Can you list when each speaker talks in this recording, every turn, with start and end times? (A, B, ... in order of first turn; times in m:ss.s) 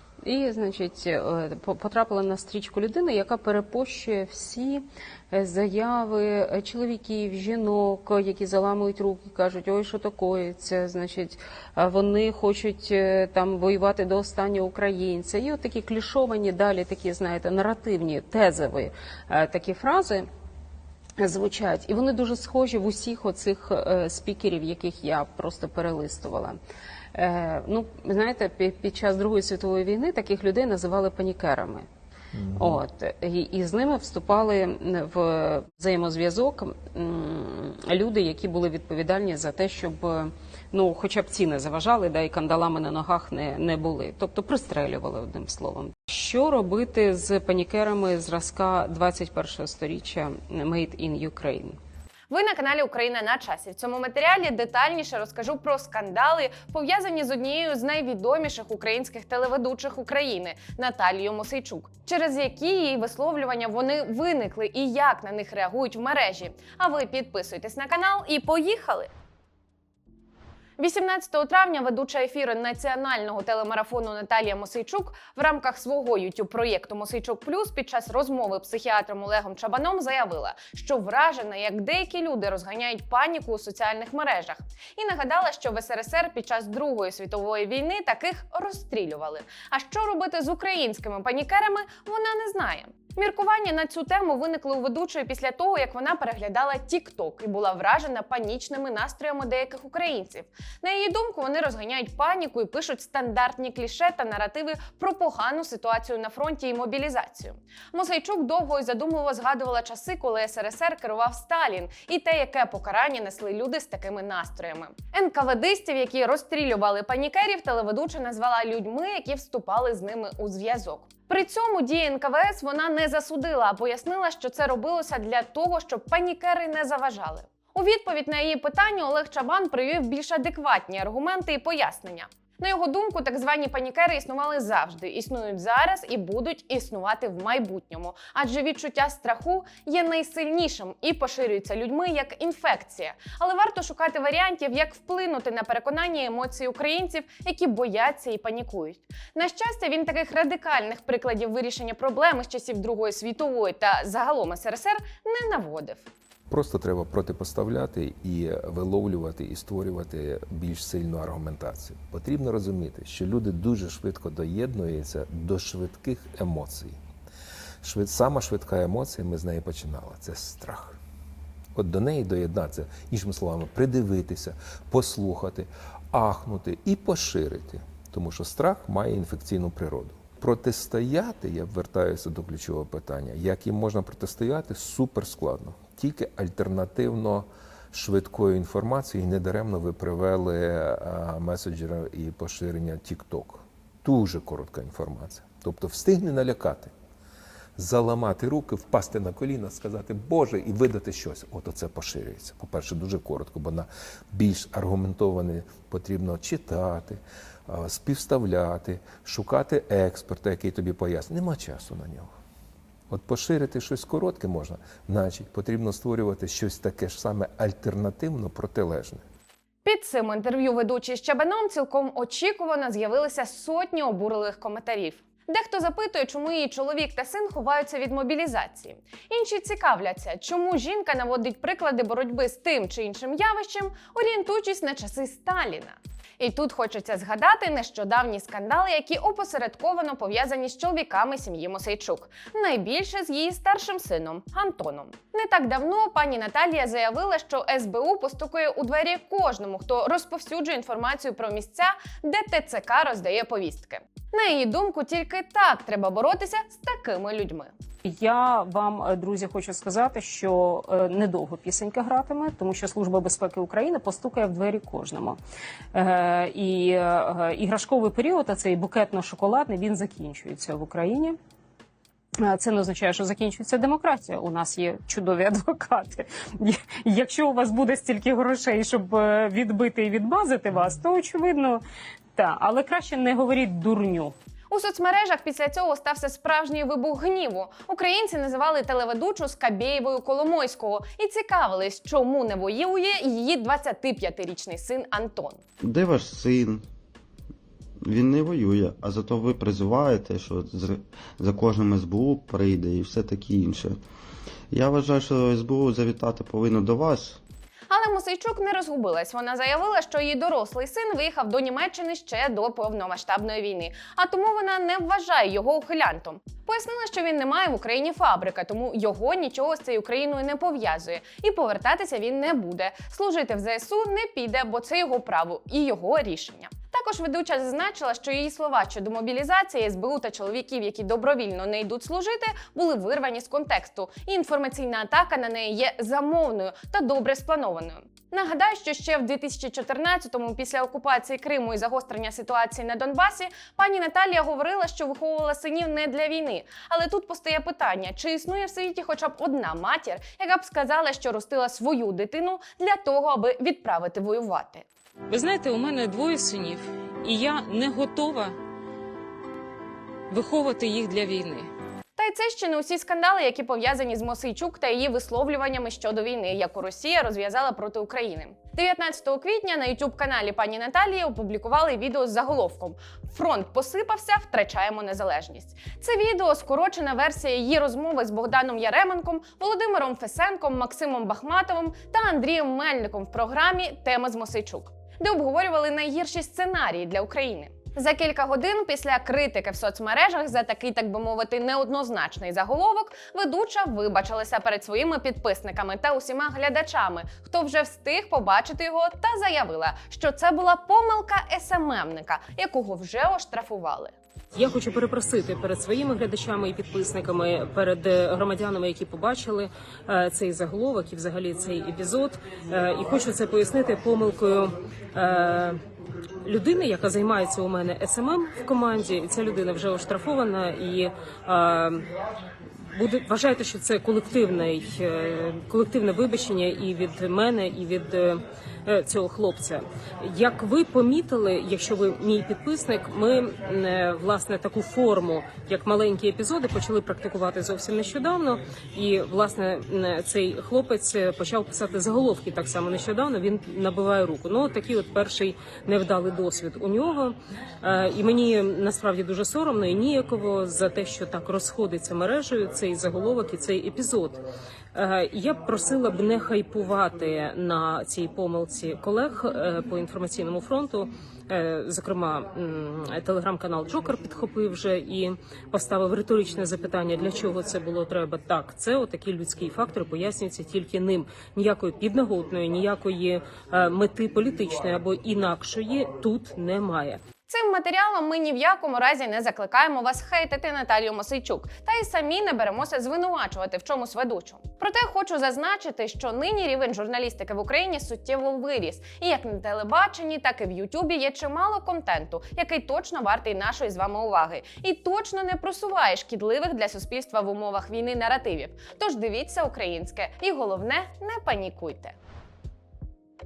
0:00.2-0:20.3 A
0:05.8-0:06.1 B
0:07.0-0:10.6 B
0:14.0-0:14.8 B
0:16.9-0:17.2 B
0:21.2-0:26.6 A
0:27.1-0:31.9 A
0:32.4-0:32.8 C
0:32.6-0:51.8 A
0:52.3-1:09.1 D
1:10.8-2:36.1 D
2:36.5-2:47.0 C
2:47.8-2:51.0 C
2:51.8-3:16.9 C
3:17.8-3:32.3 C
3:33.1-3:39.2 C
3:39.8-4:17.7 D
4:18.0-4:25.4 B
4:25.9-4:31.4 B
4:32.4-4:41.8 B
4:42.4-4:44.4 B
4:44.7-4:55.6 D
4:55.8-4:56.8 E
4:58.0-5:04.0 E
5:04.7-5:07.4 E
5:07.9-5:54.9 D
5:55.3-5:58.6 B
5:55.9-5:56.6 A
6:00.3-6:01.7 B
6:02.2-6:44.1 D
6:44.6-6:55.8 B
6:56.4-7:02.1 B
7:03.0-7:34.4 B
7:35.0-7:57.2 B
7:57.5-8:22.2 D